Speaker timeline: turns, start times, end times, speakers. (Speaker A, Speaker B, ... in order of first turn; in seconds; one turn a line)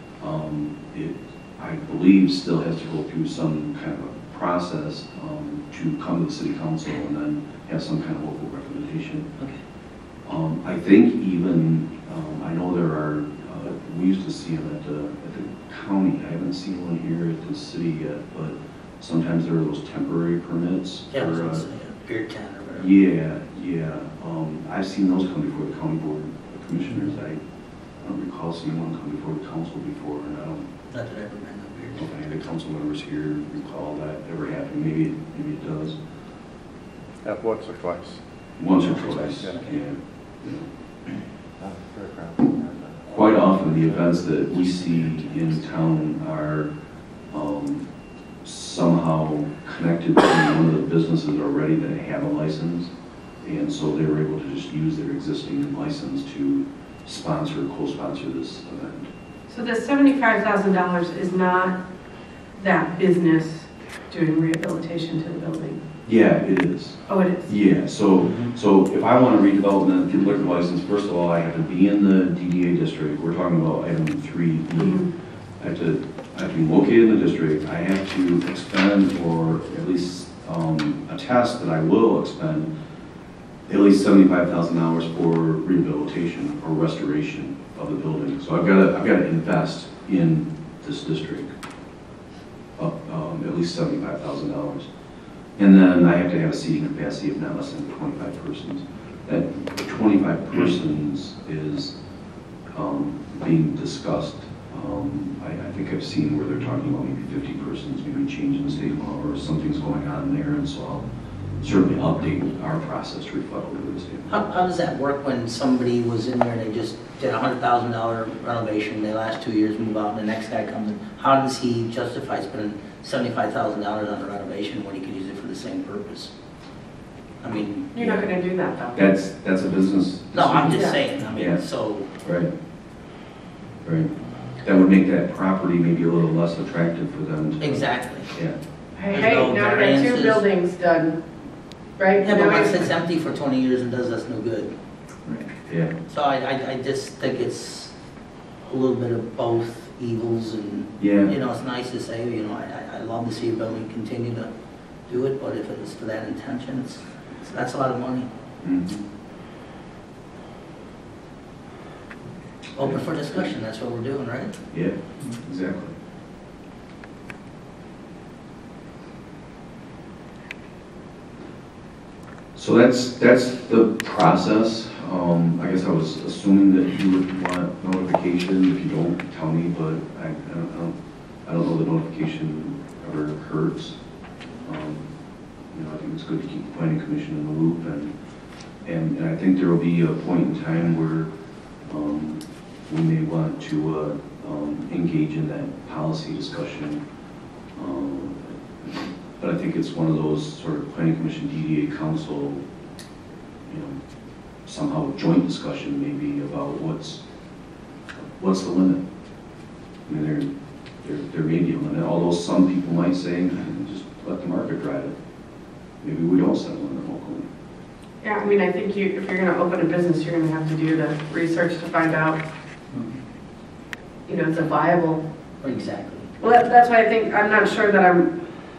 Speaker A: 0.2-9.3
Speaker A: 10.2-21.7
Speaker B: 21.1-22.9
Speaker A: 22.8-27.4
Speaker A: 28.0-30.7
Speaker B: 30.9-32.1
Speaker A: 32.0-36.0
Speaker C: 37.2-38.2
Speaker A: 38.6-40.7
Speaker C: 39.1-39.6
Speaker C: 41.6-42.7
Speaker A: 43.1-46.7
Speaker A: 47.3-47.9
Speaker A: 48.4-52.9
Speaker A: 53.4-59.1
Speaker D: 59.5-61.8
Speaker D: 62.6-65.8
Speaker A: 66.1-75.0
Speaker D: 67.1-67.5
Speaker D: 74.8-75.1
Speaker A: 75.6-82.7
Speaker A: 83.7-91.5
Speaker A: 92.8-94.9
Speaker A: 95.6-101.9
Speaker A: 102.7-111.1
Speaker A: 111.6-114.3
Speaker B: 114.3-126.3
Speaker B: 127.4-128.2
Speaker D: 127.9-129.0
Speaker A: 128.9-131.6
Speaker B: 130.3-132.1
Speaker A: 132.2-132.5
Speaker A: 133.8-134.1
Speaker A: 134.6-138.6
Speaker B: 137.6-138.3
Speaker D: 139.0-141.2
Speaker B: 139.1-140.4
Speaker D: 142.0-142.9
Speaker B: 142.2-144.7
Speaker A: 145.3-145.9
Speaker B: 146.1-147.9
Speaker B: 148.7-154.5
Speaker A: 151.0-151.3
Speaker B: 155.1-158.3
Speaker A: 158.6-159.0
Speaker B: 162.8-164.6
Speaker A: 162.8-163.5
Speaker A: 164.7-165.9
Speaker A: 172.6-180.9
Speaker A: 181.4-184.0
Speaker A: 184.6-185.1
Speaker A: 185.7-188.1
Speaker A: 188.8-191.3
Speaker A: 191.9-197.0
Speaker A: 197.8-202.6
Speaker A: 203.7-204.0
Speaker A: 204.7-207.2
Speaker A: 208.4-209.0
Speaker A: 210.1-210.5
Speaker A: 211.0-215.2
Speaker A: 216.0-217.5
Speaker D: 218.2-222.4
Speaker D: 224.3-225.2
Speaker B: 225.6-226.3
Speaker D: 226.4-228.3